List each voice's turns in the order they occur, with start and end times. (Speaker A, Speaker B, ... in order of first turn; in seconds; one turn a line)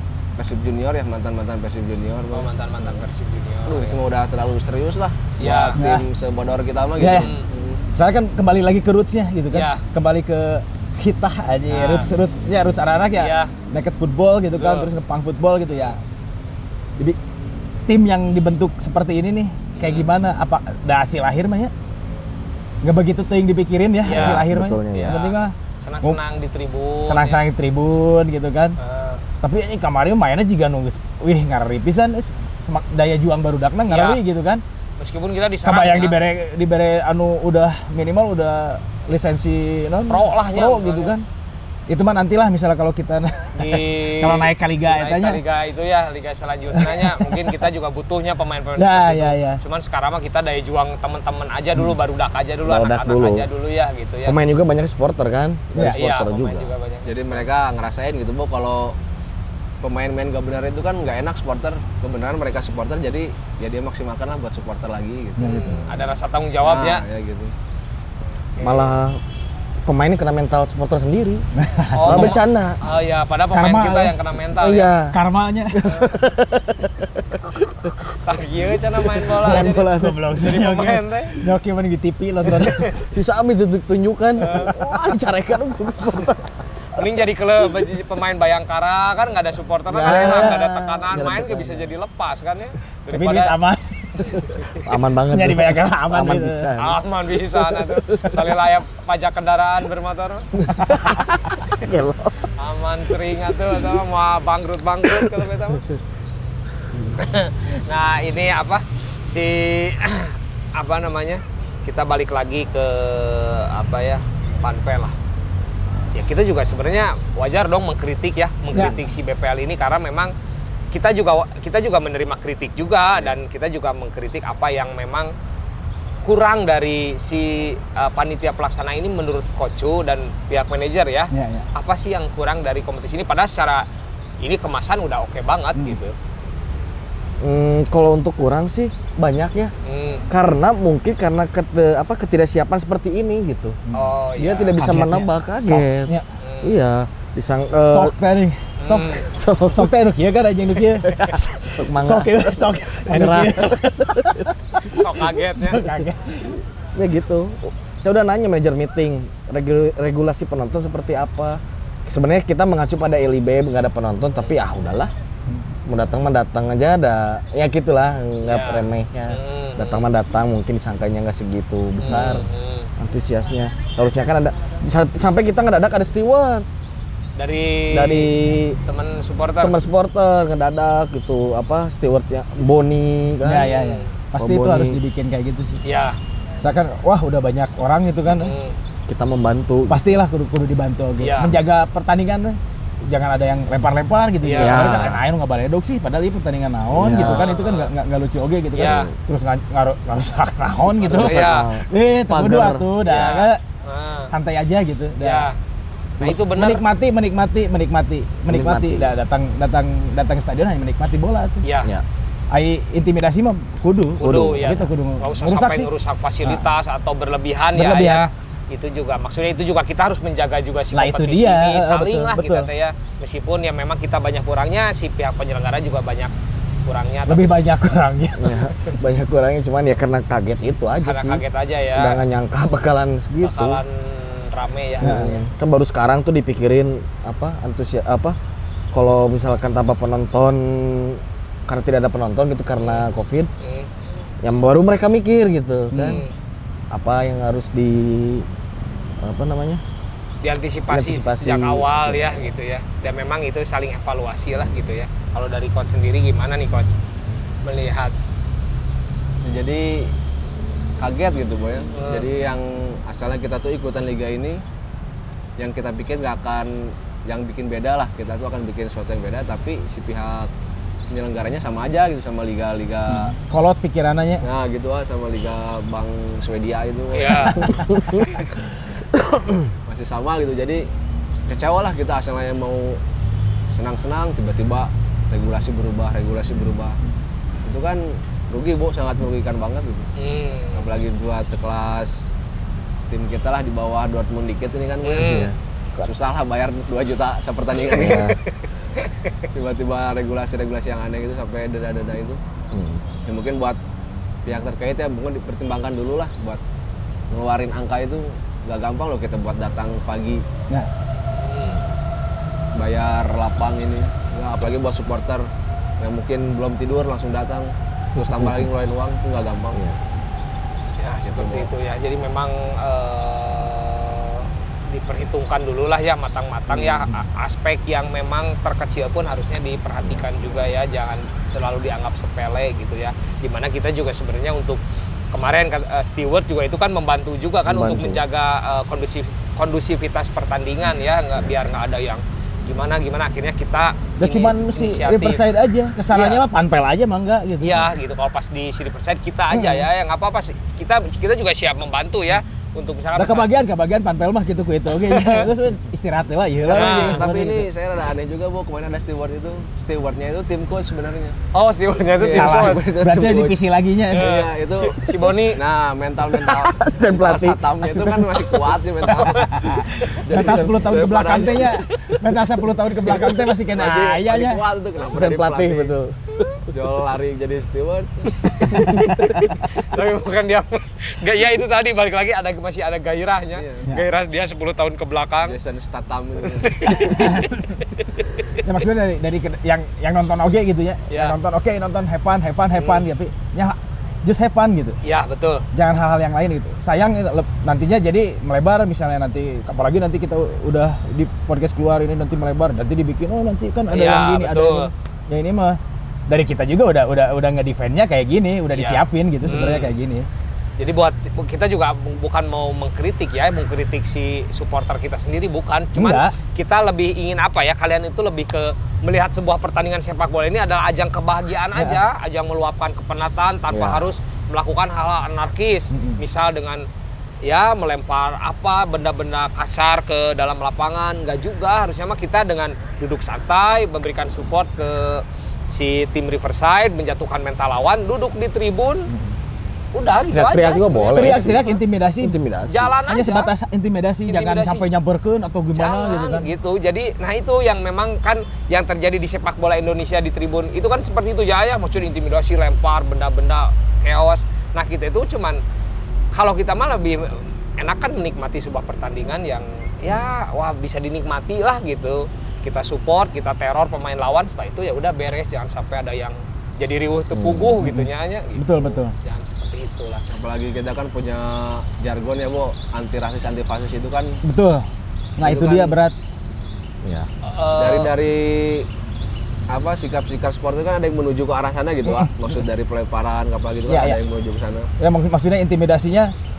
Speaker A: 0.4-3.0
Speaker B: 2.3-4.0
Speaker A: 3.7-7.8
Speaker B: 5.4-5.8
Speaker C: 5.8-6.0
Speaker C: 7.0-7.3
Speaker B: 7.2-7.5
Speaker C: 7.9-16.0
Speaker B: 9.5-9.8
Speaker B: 11.7-12.1
Speaker B: 13.2-13.5
Speaker B: 14.5-14.9
Speaker C: 17.9-21.7
Speaker B: 19.8-20.1
Speaker C: 22.8-26.2
Speaker B: 24.0-27.4
Speaker D: 24.1-25.3
Speaker C: 27.0-28.8
Speaker B: 28.8-29.2
Speaker C: 29.4-34.6
Speaker B: 33.9-34.2
Speaker B: 35.0-36.2
Speaker C: 35.6-41.2
Speaker B: 40.1-41.1
Speaker C: 41.9-45.4
Speaker B: 43.5-54.4
Speaker C: 46.7-47.5
Speaker C: 48.8-49.6
Speaker D: 52.6-53.5
Speaker D: 54.2-56.7
Speaker C: 55.7-56.0
Speaker B: 55.9-57.4
Speaker A: 57.0-59.0
Speaker A: 59.8-65.8
Speaker C: 65.4-65.9
Speaker B: 65.4-67.0
Speaker A: 66.6-67.5
Speaker B: 68.6-69.0
Speaker D: 68.6-69.2
Speaker D: 69.8-71.4
Speaker C: 71.5-72.4
Speaker B: 71.9-74.9
Speaker D: 72.0-72.8
Speaker C: 73.5-74.2
Speaker D: 74.6-75.2
Speaker C: 75.1-75.8
Speaker D: 75.7-78.1
Speaker B: 75.8-76.2
Speaker B: 78.2-81.3
Speaker D: 79.0-80.2
Speaker C: 79.4-82.9
Speaker B: 82.5-83.0
Speaker D: 83.1-86.4
Speaker B: 84.4-84.7
Speaker B: 87.0-93.5
Speaker D: 89.9-91.9
Speaker C: 90.0-90.5
Speaker C: 93.1-94.5
Speaker D: 94.4-97.0
Speaker C: 95.3-96.7
Speaker B: 96.8-100.5
Speaker D: 97.5-98.4
Speaker D: 100.6-102.5
Speaker C: 100.8-101.2
Speaker B: 102.6-105.8
Speaker D: 106.9-107.2
Speaker B: 107.1-115.1
Speaker B: 116.1-120.3
Speaker B: 120.9-125.3
Speaker B: 126.2-133.8
Speaker C: 131.3-131.7
Speaker B: 134.4-136.1
Speaker D: 137.4-139.7
Speaker B: 139.8-140.3
Speaker D: 140.3-143.8
Speaker B: 143.9-144.8
Speaker D: 144.4-148.1
Speaker C: 144.7-146.3
Speaker B: 146.4-146.7
Speaker C: 147.8-154.5
Speaker B: 148.8-149.3
Speaker D: 149.1-149.9
Speaker D: 150.9-152.5
Speaker D: 153.0-154.5
Speaker B: 154.9-155.8
Speaker C: 155.5-156.6
Speaker D: 156.9-165.1
Speaker D: 165.9-172.4
Speaker B: 168.4-170.1
Speaker B: 172.0-172.9
Speaker D: 173.0-176.7
Speaker B: 177.3-178.3
Speaker D: 177.9-178.8
Speaker B: 178.8-179.8
Speaker D: 179.6-183.7
Speaker C: 183.4-185.8
Speaker B: 183.6-184.1
Speaker D: 184.4-185.0
Speaker B: 185.8-186.2
Speaker C: 186.6-188.5
Speaker B: 188.3-188.8
Speaker D: 189.1-190.0
Speaker C: 189.9-203.6
Speaker B: 191.2-191.6
Speaker B: 194.4-195.2
Speaker D: 194.6-195.2
Speaker D: 196.9-197.5
Speaker B: 197.2-197.9
Speaker B: 198.8-199.1
Speaker D: 198.8-199.1
Speaker D: 201.0-203.2
Speaker B: 201.0-201.7
Speaker B: 203.1-204.3
Speaker C: 204.3-205.5
Speaker B: 205.2-205.5
Speaker B: 206.2-206.8
Speaker C: 206.2-211.6
Speaker D: 208.5-209.1
Speaker B: 211.6-211.9
Speaker C: 212.5-215.9
Speaker B: 214.2-226.3
Speaker D: 214.2-214.7
Speaker C: 217.7-218.3
Speaker C: 220.9-222.7
Speaker B: 226.8-227.5
Speaker C: 227.3-228.7
Speaker D: 228.4-231.4
Speaker B: 231.0-232.2
Speaker D: 231.9-233.8
Speaker B: 233.4-235.4
Speaker C: 235.0-235.3
Speaker D: 235.0-238.3
Speaker D: 238.9-243.5
Speaker B: 242.8-243.1
Speaker B: 243.6-243.9
Speaker D: 244.4-246.2
Speaker B: 245.9-246.3
Speaker D: 246.9-248.5
Speaker D: 249.2-249.8
Speaker B: 250.4-256.9
Speaker D: 250.9-252.5
Speaker B: 257.6-258.1
Speaker A: 259.4-260.1
Speaker A: 261.0-264.6
Speaker B: 261.9-262.3
Speaker A: 265.6-270.5
Speaker A: 271.1-273.3
Speaker C: 273.1-274.4
Speaker A: 274.4-277.7
Speaker B: 277.1-277.7
Speaker C: 277.5-278.2
Speaker D: 277.6-278.2
Speaker A: 279.9-280.9
Speaker A: 281.5-283.0
Speaker A: 283.7-287.0
Speaker A: 287.6-290.1
Speaker B: 290.2-290.9
Speaker A: 290.7-292.3
Speaker A: 293.1-295.5
Speaker B: 295.0-295.5
Speaker D: 295.2-296.1
Speaker A: 296.0-298.3
Speaker D: 297.9-298.4
Speaker B: 298.1-299.1
Speaker A: 299.5-302.4
Speaker D: 302.7-303.0
Speaker A: 303.2-303.8
Speaker A: 304.4-306.6
Speaker A: 307.3-310.4
Speaker B: 311.4-311.8
Speaker A: 312.7-315.5
Speaker A: 316.0-319.8
Speaker D: 318.1-318.7
Speaker B: 321.0-334.8
Speaker A: 321.2-321.7
Speaker B: 335.3-345.4
Speaker D: 337.7-338.2
Speaker C: 344.2-347.9
Speaker B: 346.1-346.4
Speaker B: 347.6-353.5
Speaker C: 349.5-349.9
Speaker C: 353.1-357.7
Speaker B: 354.9-355.5
Speaker A: 356.6-361.4
Speaker B: 356.7-357.2
Speaker B: 361.5-362.8
Speaker A: 362.2-363.6
Speaker C: 362.2-364.3
Speaker B: 364.1-365.6
Speaker A: 364.1-365.0
Speaker A: 365.5-369.4
Speaker D: 366.2-368.7
Speaker C: 369.1-374.6
Speaker A: 370.2-371.8
Speaker D: 370.3-370.7
Speaker A: 373.3-375.9
Speaker D: 375.0-376.2
Speaker A: 376.7-379.1
Speaker D: 378.5-379.5
Speaker C: 378.7-379.1
Speaker B: 379.6-385.5
Speaker A: 383.6-383.9
Speaker A: 385.4-387.1
Speaker B: 386.6-388.6
Speaker C: 386.9-387.6
Speaker C: 388.6-395.0
Speaker B: 391.1-391.3
Speaker B: 392.7-393.0
Speaker B: 395.0-395.6
Speaker C: 395.7-410.3
Speaker B: 403.9-404.9
Speaker B: 408.7-409.9
Speaker B: 410.8-426.9
Speaker C: 415.9-416.3
Speaker C: 421.7-422.0
Speaker D: 423.7-424.1
Speaker C: 425.9-426.2
Speaker B: 427.4-439.1
Speaker C: 439.1-439.3
Speaker B: 439.9-441.7
Speaker D: 440.3-441.6
Speaker C: 441.1-442.4
Speaker D: 442.2-442.9
Speaker B: 442.7-443.5
Speaker C: 443.0-446.5
Speaker B: 444.3-444.9
Speaker B: 445.7-455.6
Speaker B: 456.3-470.2
Speaker D: 467.3-467.9
Speaker C: 467.8-469.1
Speaker A: 470.3-474.4
Speaker C: 474.4-474.9
Speaker C: 475.4-476.1
Speaker A: 475.4-475.9
Speaker D: 477.0-477.3
Speaker B: 477.4-478.1
Speaker A: 477.8-478.9
Speaker A: 479.7-484.9
Speaker C: 482.0-482.5
Speaker C: 483.9-484.2
Speaker C: 485.0-486.3